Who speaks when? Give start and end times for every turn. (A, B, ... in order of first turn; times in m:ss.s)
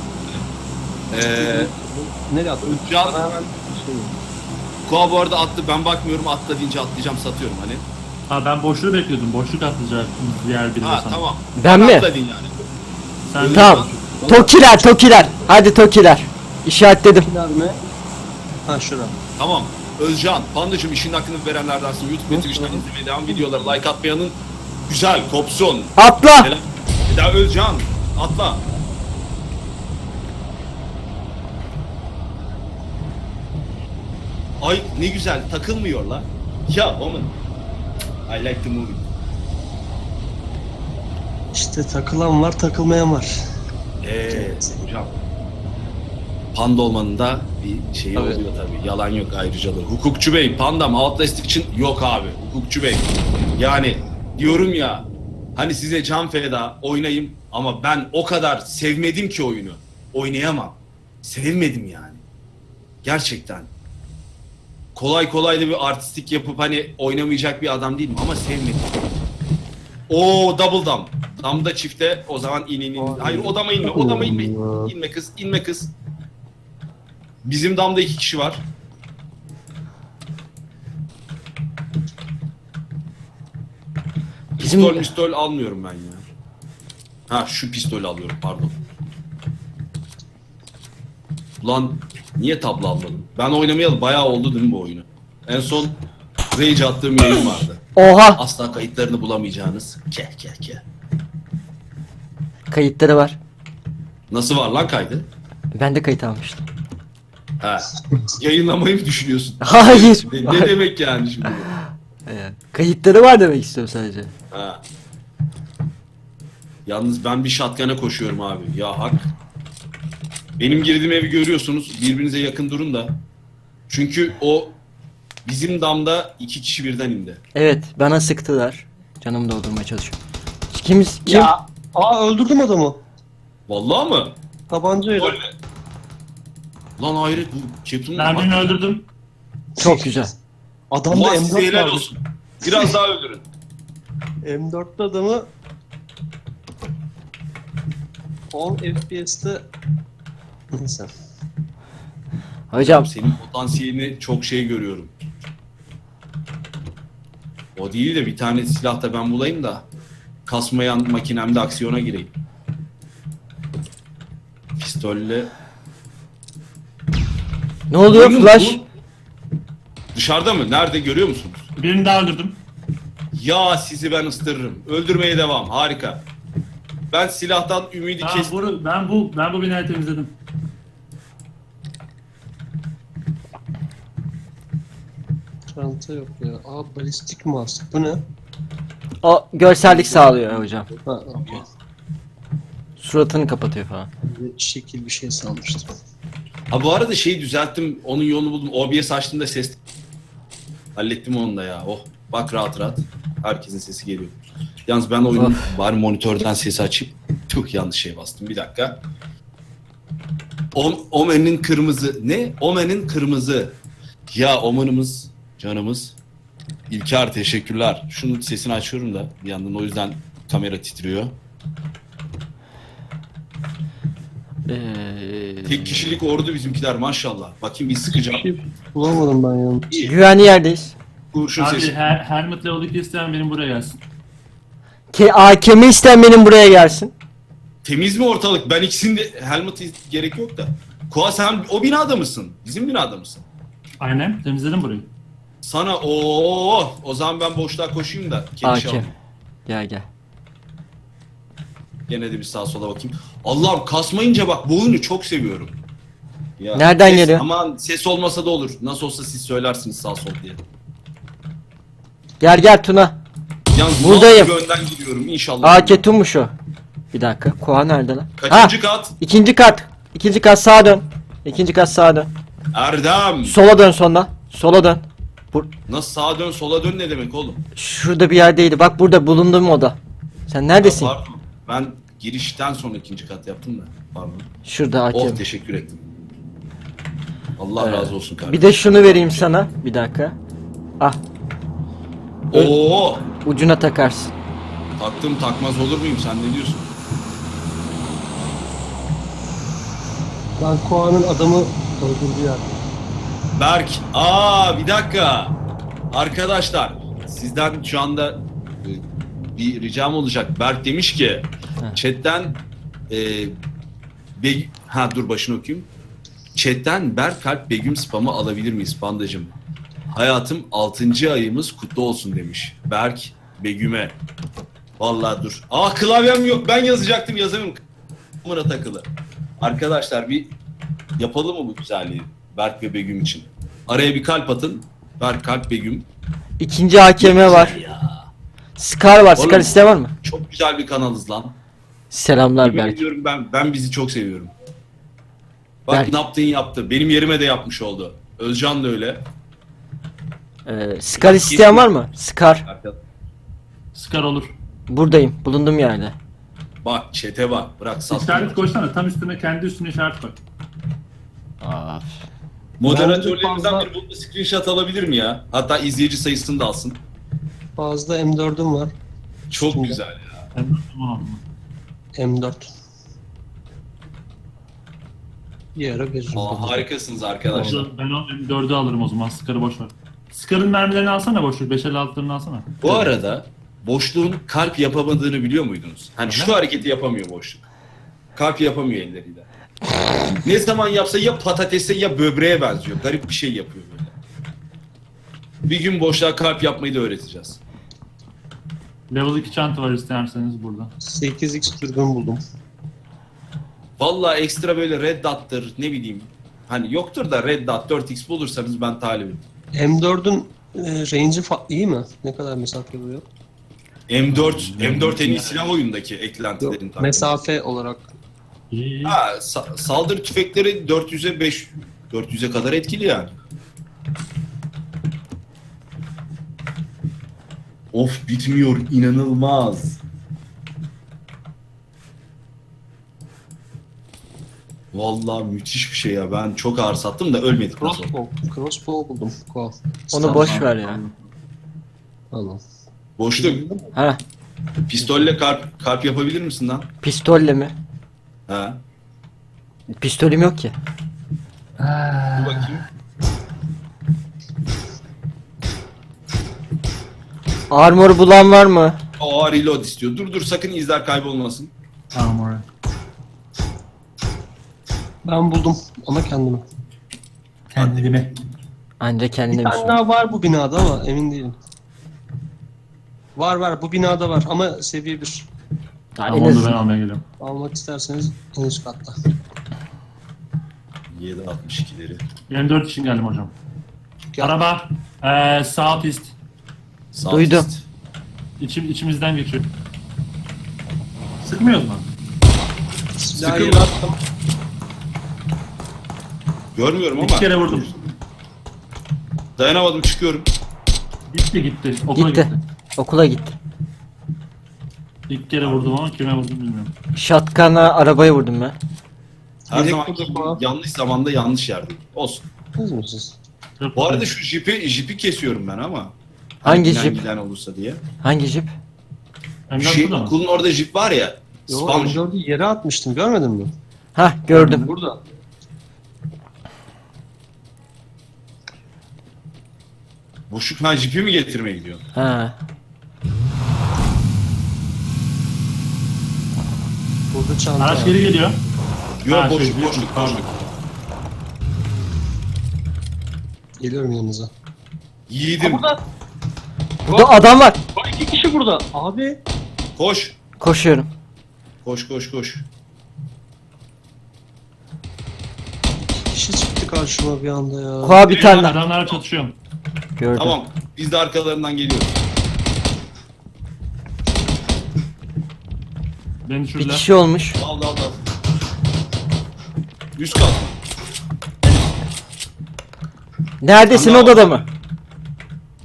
0:01.1-0:01.7 A
0:01.2-0:04.1 B
0:02.6-0:03.2 A
0:04.8-0:07.9 A
0:08.3-0:11.2 C
0:10.8-0:12.5 A
0:11.6-0:12.1 D
0:13.3-0:14.0 C
0:13.4-0:14.6 A
0:13.5-0:17.3 D
0:14.2-0:14.4 B
0:17.2-0:17.8 B
0:18.6-0:19.2 B
0:19.4-0:28.6 A
0:22.3-0:23.7 B
0:26.0-0:26.5 D
0:34.6-0:37.4 A
0:38.3-0:39.1 A
0:41.5-0:43.4 B
0:44.0-0:45.2 A
0:44.3-0:44.8 B
0:46.5-1:02.2 A
0:48.1-0:48.4 B
1:03.0-1:03.7 A
1:04.9-1:09.0 A
1:10.1-1:15.9 A
1:13.0-1:14.9 B
1:17.4-1:18.6 A
1:24.6-1:26.2 A
1:24.6-1:25.1 D
1:27.3-1:28.8 A
1:31.6-1:36.0 A
1:36.5-1:37.8 A
1:38.0-1:38.4 D
1:38.4-1:40.8 A
1:42.7-1:43.4 D
1:44.3-1:45.3 A
1:45.7-1:46.6 D
1:47.6-1:51.7 A
1:49.6-1:50.7 D
1:51.7-1:54.3 D
1:54.5-1:54.8 A
1:56.8-1:59.3 A
2:00.6-2:03.2 A
2:03.9-2:04.8 A
2:05.4-2:07.4 A
2:07.5-2:10.2 D
2:10.7-2:11.5 D
2:11.2-2:13.0 B
2:13.7-2:14.4 A
2:14.7-2:15.4 B
2:15.1-2:15.5 A
2:17.0-2:18.8 A
2:18.1-2:19.0 C
2:19.8-2:20.3 B
2:19.8-2:20.3 D
2:20.9-2:22.1 B
2:21.1-2:23.4 A
2:22.6-2:22.9 B
2:24.4-2:25.5 B
2:28.5-2:29.6 B
2:30.7-2:31.1 B
2:32.7-2:33.1 D
2:32.8-2:35.1 A
2:37.8-2:39.8 A
2:40.4-2:42.3 A
2:44.8-2:45.5 A
2:47.9-2:48.8 D
2:48.1-2:48.9 A
2:50.1-2:51.7 A
2:51.8-2:52.6 C
2:53.3-2:56.2 A
2:57.1-2:58.5 A
2:58.2-3:00.3 C
3:05.7-3:08.2 B
3:09.2-3:10.9 D
3:10.9-3:11.6 B
3:13.0-3:14.1 D
3:14.2-3:15.9 B
3:16.7-3:19.8 A
3:20.9-3:29.0 A
3:25.3-3:25.6 D
3:30.7-3:33.8 A
3:34.3-3:36.2 A
3:36.9-3:41.4 A
3:44.7-3:46.1 D
3:45.6-3:48.5 A
3:48.1-3:49.9 B
3:50.0-3:50.9 D
3:51.3-3:51.9 A
3:51.6-3:54.0 C
3:55.1-3:57.1 D
3:57.8-4:03.4 A
4:04.0-4:05.1 C
4:05.6-4:09.1 A
4:08.6-4:09.1 D
4:09.7-4:10.1 D
4:12.1-4:15.8 A
4:16.6-4:20.6 A
4:16.7-4:17.4 D
4:22.4-4:23.2 D
4:23.7-4:26.0 A
4:24.0-4:24.5 D
4:25.6-4:26.5 D
4:27.1-4:32.3 D
4:28.4-4:29.1 A
4:32.7-4:33.6 A
4:33.4-4:35.7 D
4:35.9-4:37.6 A
4:37.8-4:40.0 D
4:40.5-4:41.1 D
4:40.8-4:44.5 A
4:44.6-4:45.4 D
4:45.1-4:46.0 A
4:47.6-4:49.5 A
4:47.8-4:50.4 D
4:52.5-4:53.2 A
4:53.3-4:54.3 D
4:55.0-4:56.9 A
5:00.6-5:02.8 B
5:03.5-5:05.6 A
5:06.1-5:13.6 A
5:14.3-5:15.9 A
5:16.5-5:19.5 A
5:20.1-5:24.2 A
5:25.0-5:27.8 A
5:28.4-5:29.1 A
5:29.6-5:30.5 A
5:31.2-5:36.1 A
5:36.6-5:37.8 D
5:37.2-5:38.3 A
5:38.8-5:40.1 D
5:39.4-5:41.6 A
5:42.1-5:43.0 D
5:42.6-5:44.5 A
5:45.8-5:49.2 A
5:50.6-5:52.6 D
5:51.2-5:51.9 A
5:52.6-5:53.0 A
5:53.9-5:54.5 C
5:54.9-5:56.1 D
5:56.8-5:58.6 A
5:58.1-6:00.4 C
6:01.6-6:02.2 D
6:02.8-6:07.0 A
6:02.8-6:03.9 B
6:07.8-6:08.9 B
6:09.5-6:10.5 A
6:10.5-6:11.4 C
6:12.2-6:12.7 B
6:15.8-6:16.9 B
6:16.3-6:17.8 A
6:17.5-6:17.8 B
6:17.5-6:23.1 C
6:22.8-6:27.6 A
6:26.3-6:26.6 C
6:28.4-6:29.4 A
6:30.4-6:34.1 A
6:35.6-6:37.6 A
6:39.1-6:40.9 C
6:41.0-6:42.4 B
6:44.0-6:49.4 A
6:49.7-6:53.2 B
6:54.1-6:57.4 A
6:54.3-6:55.5 C
6:56.6-6:58.1 B
6:58.7-6:59.2 C
6:59.0-7:03.3 A
7:07.9-7:10.0 A
7:14.9-7:18.1 A
7:17.8-7:21.0 B
7:20.1-7:21.0 D
7:22.3-7:22.6 B
7:23.2-7:23.6 A
7:23.4-7:23.9 B
7:23.9-7:24.2 D
7:24.9-7:26.9 A
7:27.0-7:27.8 D
7:28.5-7:28.8 A
7:30.0-7:30.7 D
7:31.8-7:32.8 C
7:32.4-7:32.8 A
7:37.7-7:39.0 D
7:39.2-7:41.7 A
7:42.1-7:42.6 C
7:45.2-7:46.6 B
7:47.7-7:48.3 C
7:47.8-7:48.1 A
7:49.0-7:50.0 D
7:49.5-7:51.5 B
7:53.4-7:55.5 B
7:56.2-7:56.8 D
7:56.2-7:57.2 C
7:57.4-7:59.1 B
8:01.1-8:02.2 A
8:02.5-8:03.5 C
8:04.4-8:06.3 C
8:07.1-8:07.8 A
8:07.3-8:07.7 D
8:08.6-8:09.7 C
8:11.4-8:12.1 C
8:13.2-8:14.2 B
8:13.3-8:13.9 A
8:16.7-8:18.1 A
8:17.2-8:17.9 C
8:19.6-8:20.5 A
8:21.3-8:22.6 C
8:22.1-8:23.5 D
8:25.3-8:26.9 C
8:25.6-8:25.9 A
8:27.2-8:28.8 D
8:29.7-8:30.6 B
8:29.7-8:32.4 A
8:32.8-8:33.4 B
8:33.8-8:34.3 C
8:33.9-8:38.0 A
8:36.6-8:37.2 D
8:38.2-8:38.7 D
8:39.7-8:40.4 C
8:39.8-8:42.2 A
8:41.7-8:43.7 B
8:44.2-8:44.9 D
8:44.5-8:45.2 B
8:50.5-8:52.0 A
8:52.1-8:52.6 D
8:57.3-8:58.2 B
8:57.8-8:58.6 C
8:59.2-9:00.6 A
8:59.3-9:00.5 C
9:03.8-9:04.5 B
9:05.3-9:05.9 A
9:05.6-9:06.0 B
9:07.1-9:07.8 D
9:07.1-9:07.4 B
9:07.9-9:09.4 B
9:10.0-9:10.4 A
9:10.6-9:11.1 D
9:11.8-9:12.6 A
9:16.1-9:18.2 B
9:18.0-9:18.7 D
9:18.2-9:19.2 A
9:18.3-9:19.6 C
9:20.2-9:20.6 D
9:20.4-9:22.2 A
9:26.4-9:27.0 C
9:26.8-9:27.6 D
9:27.6-9:28.2 A
9:30.2-9:30.8 A
9:31.6-9:31.9 C
9:33.6-9:34.6 D
9:33.9-9:34.6 A